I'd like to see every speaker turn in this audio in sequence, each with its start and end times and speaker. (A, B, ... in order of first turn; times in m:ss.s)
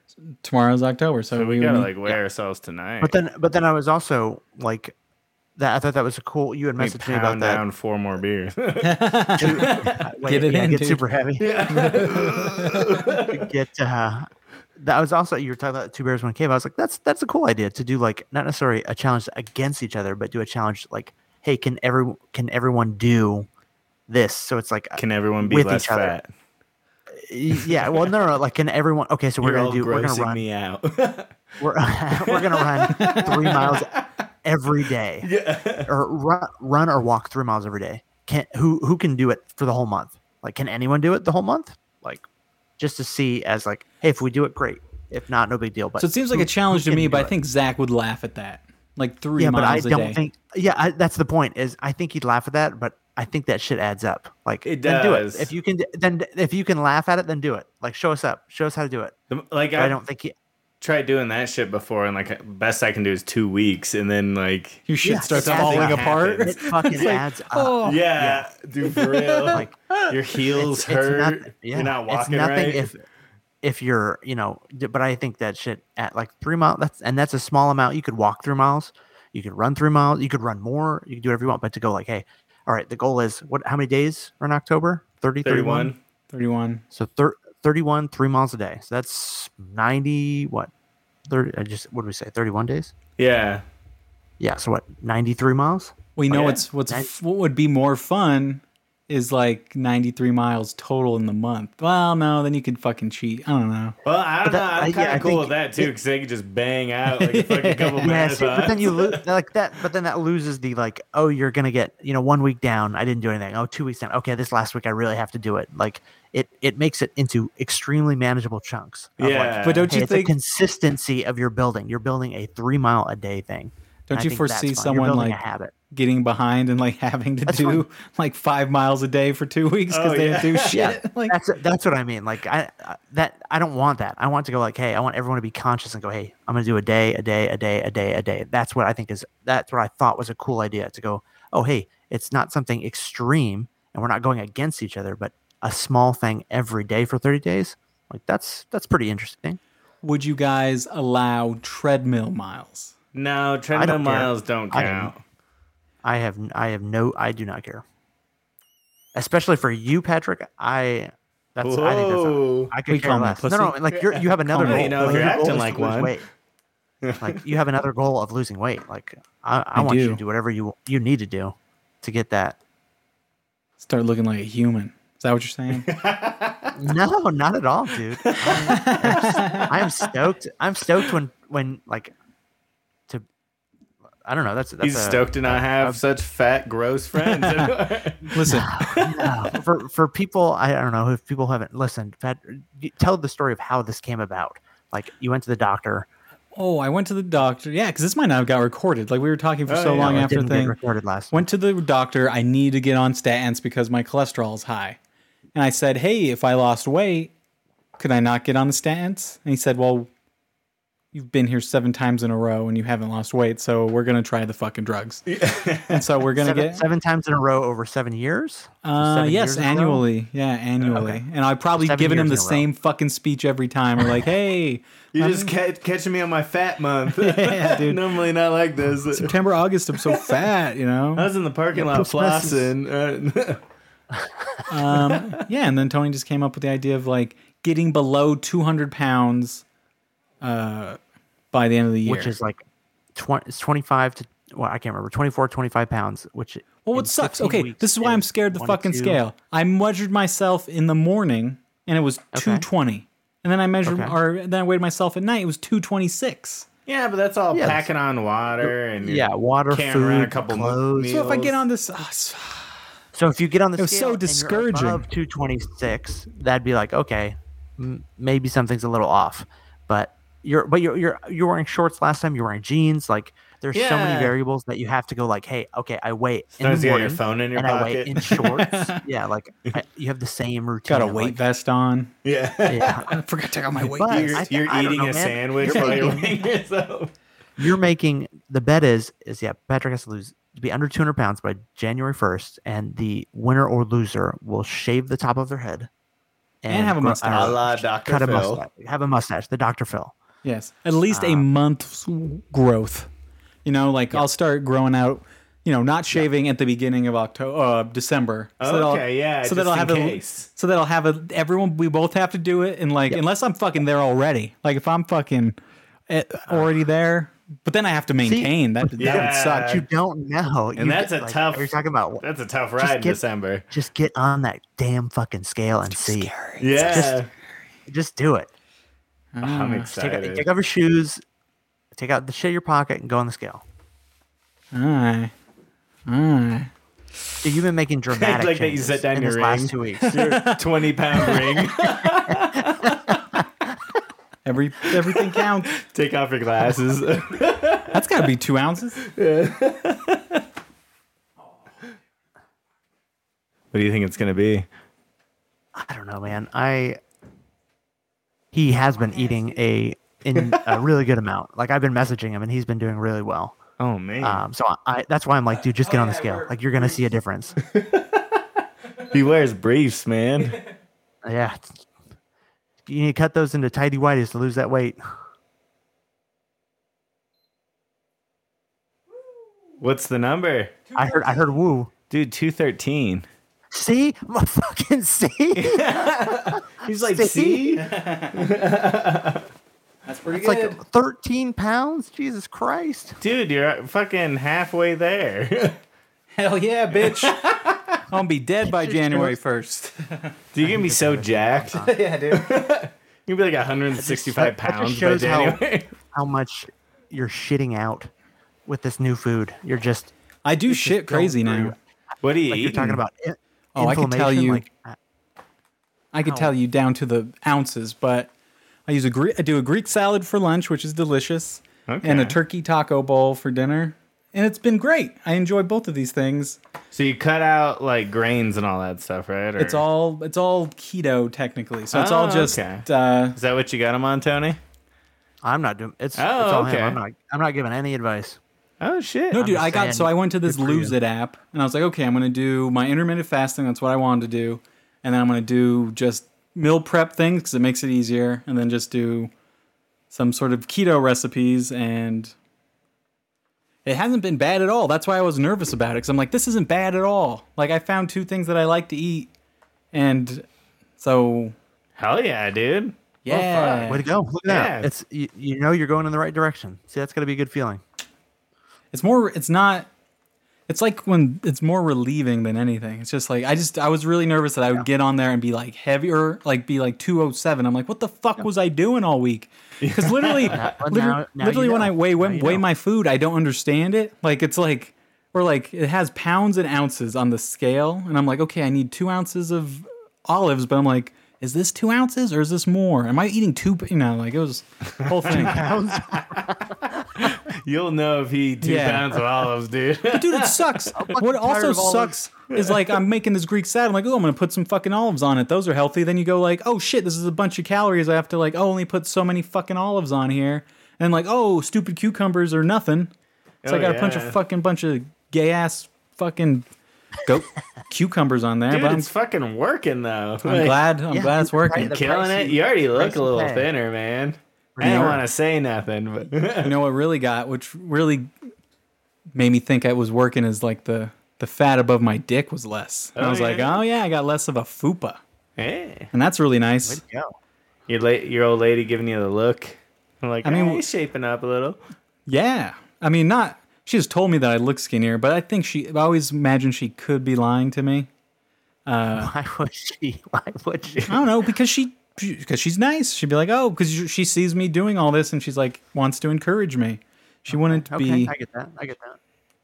0:00.3-0:01.9 A
0:01.3-0:03.2 B
0:03.0-0:04.9 C
0:05.6-0:07.6 C
0:06.8-0:10.0 B
0:08.8-0:11.0 A
0:09.4-0:11.7 C
0:11.4-0:13.4 B
0:11.7-0:12.9 A
0:13.2-0:14.3 C
0:14.8-0:23.5 C
0:24.1-0:26.2 C
0:25.0-0:26.3 B
0:27.2-0:30.4 C
0:27.6-0:28.1 B
0:29.4-0:31.3 B
0:31.6-0:35.3 C
0:32.2-0:34.0 B
0:32.9-0:33.4 A
0:35.2-0:35.9 B
0:35.9-0:42.2 C
0:42.8-0:47.3 C
0:46.0-0:50.2 A
0:49.4-0:59.1 C
0:54.6-0:55.5 B
0:59.3-1:00.0 B
0:59.8-1:00.3 C
1:00.8-1:07.1 B
1:04.9-1:08.0 A
1:05.0-1:08.5 C
1:07.8-1:12.9 B
1:08.9-1:10.1 A
1:10.5-1:13.0 C
1:13.6-1:25.9 C
1:25.4-1:26.0 B
1:26.3-1:26.8 A
1:26.9-1:30.7 C
1:31.3-1:32.9 C
1:33.2-1:33.6 B
1:34.4-1:35.9 C
1:36.2-1:43.9 A
1:36.3-1:36.6 B
1:44.0-1:49.2 B
1:44.4-1:45.9 C
1:47.1-1:48.7 A
1:48.0-2:05.7 C
1:59.2-1:59.9 B
1:59.6-2:00.3 A
2:04.1-2:05.4 A
2:05.9-2:11.4 A
2:07.4-2:07.8 C
2:09.9-2:10.9 B
2:10.7-2:29.6 C
2:30.0-2:32.9 A
2:33.1-2:35.2 B
2:33.7-2:35.1 C
2:36.0-2:37.8 C
2:39.1-2:46.2 C
2:41.6-2:42.7 B
2:42.9-2:43.8 A
2:43.9-2:46.1 B
2:44.4-2:45.6 A
2:47.0-2:47.4 B
2:47.2-2:52.6 C
2:49.7-2:50.2 A
2:53.8-2:55.8 A
2:55.7-2:56.8 B
2:56.8-3:02.1 C
2:58.2-2:58.6 B
2:58.4-2:59.7 A
3:04.2-3:06.0 C
3:04.8-3:09.2 B
3:07.2-3:07.7 A
3:08.3-3:08.7 A
3:08.5-3:16.1 C
3:16.5-3:20.8 A
3:19.7-3:20.3 B
3:20.0-3:21.5 C
3:21.3-3:25.0 A
3:25.5-3:27.3 A
3:28.0-3:30.1 A
3:31.1-3:35.3 A
3:35.3-3:36.0 B
3:35.9-3:36.8 A
3:36.4-3:40.0 C
3:38.8-3:45.5 A
3:41.8-3:42.6 C
3:45.1-3:49.3 B
3:47.2-3:48.0 A
3:49.1-3:51.3 A
3:51.2-3:53.6 B
3:51.7-3:52.7 C
3:54.2-3:54.6 C
3:54.7-3:59.6 A
4:00.4-4:01.0 A
4:01.5-4:02.3 A
4:02.0-4:02.6 C
4:03.1-4:09.2 C
4:06.8-4:16.6 A
4:12.3-4:12.6 C
4:13.8-4:14.1 C
4:16.8-4:21.6 B
4:17.5-4:17.8 C
4:18.6-4:21.5 C
4:21.1-4:22.8 A
4:23.1-4:41.4 C
4:23.8-4:25.0 A
4:33.7-4:34.3 B
4:36.6-4:38.4 B
4:38.2-4:39.0 A
4:40.9-4:42.1 A
4:42.2-4:43.1 B
4:42.7-4:43.2 C
4:43.1-4:44.4 A
4:43.8-4:46.4 C
4:44.1-4:47.1 B
4:45.7-4:46.2 A
4:47.6-4:55.9 C
4:56.6-5:00.1 C
4:56.7-4:57.6 A
4:57.3-4:58.6 B
5:00.4-5:03.1 A
5:01.1-5:01.4 C
5:03.6-5:15.6 A
5:08.6-5:10.5 B
5:16.1-5:19.8 A
5:18.2-5:22.2 C
5:19.0-5:19.8 B
5:20.7-5:23.6 B
5:22.8-5:23.2 C
5:23.7-5:27.2 C
5:25.9-5:27.2 A
5:26.6-5:27.3 B
5:27.9-5:28.5 C
5:29.3-5:29.9 A
5:29.4-5:30.5 B
5:29.9-5:31.2 C
5:31.9-5:33.6 C
5:34.7-5:35.3 A
5:36.1-5:36.7 A
5:37.4-5:40.2 C
5:38.1-5:43.0 B
5:40.0-5:40.6 A
5:44.4-5:45.7 A
5:44.8-5:48.0 B
5:47.9-5:49.0 A
5:49.0-5:50.4 B
5:53.7-5:54.7 B
5:55.7-5:57.0 C
5:58.5-6:03.6 C
6:00.4-6:00.6 B
6:03.8-6:04.4 B
6:04.2-6:07.6 C
6:05.9-6:06.5 A
6:07.7-6:08.4 B
6:09.0-6:10.6 B
6:11.2-6:11.8 C
6:12.8-6:15.0 C
6:19.8-6:20.7 B
6:20.9-6:21.4 A
6:20.9-6:21.9 C
6:22.1-6:23.3 B
6:23.7-6:27.7 C
6:25.6-6:29.5 B
6:27.8-6:28.4 A
6:30.0-6:30.8 A
6:30.4-6:33.2 C
6:33.2-6:35.8 B
6:36.3-6:40.3 A
6:37.1-6:37.8 B
6:38.6-6:39.4 C
6:40.5-6:45.9 B
6:40.6-6:41.9 C
6:41.8-6:42.5 A
6:44.0-6:45.6 C
6:46.1-6:48.1 C
6:48.7-6:50.1 C
6:50.4-6:51.7 A
6:50.7-6:51.8 C
6:52.2-6:53.0 B
6:52.5-6:55.0 C
6:53.7-6:54.6 A
6:56.1-6:58.3 A
6:56.2-6:56.5 C
6:58.9-7:06.6 A
7:01.9-7:02.4 B
7:06.9-7:09.8 B
7:09.6-7:13.4 A
7:11.9-7:14.6 B
7:15.4-7:18.4 C
7:16.2-7:17.0 B
7:18.8-7:19.5 B
7:19.3-7:29.3 A
7:19.4-7:20.9 C
7:30.1-7:32.3 A
7:33.8-7:39.3 A
7:39.9-7:40.5 A
7:41.0-7:41.5 A
7:42.0-7:43.9 B
7:43.2-7:44.1 A
7:43.8-7:47.8 C
7:44.5-7:44.9 B
7:48.9-7:49.9 A
7:50.7-8:15.6 A
7:59.8-8:00.6 B
8:00.5-8:02.6 C
8:15.0-8:16.4 B
8:15.3-8:16.8 C
8:17.1-8:20.9 B
8:18.6-8:19.2 A
8:20.1-8:33.1 A
8:20.9-8:22.2 C
8:33.6-8:34.4 B
8:33.6-8:36.7 A
8:37.2-8:39.1 A
8:38.7-8:40.8 B
8:40.4-8:41.9 A
8:41.1-8:43.7 C
8:41.8-8:46.7 B
8:44.8-8:45.2 C
8:44.8-8:45.2 A
8:46.6-8:48.3 A
8:49.3-8:55.2 A
8:53.2-8:53.8 B
8:55.6-8:56.1 B
8:56.1-8:57.0 A
8:56.8-8:57.3 C
8:57.9-9:01.8 B
9:00.4-9:00.8 A
9:02.2-9:08.1 A
9:08.8-9:09.3 A
9:09.1-9:11.2 C
9:11.1-9:18.3 A
9:17.5-9:19.2 C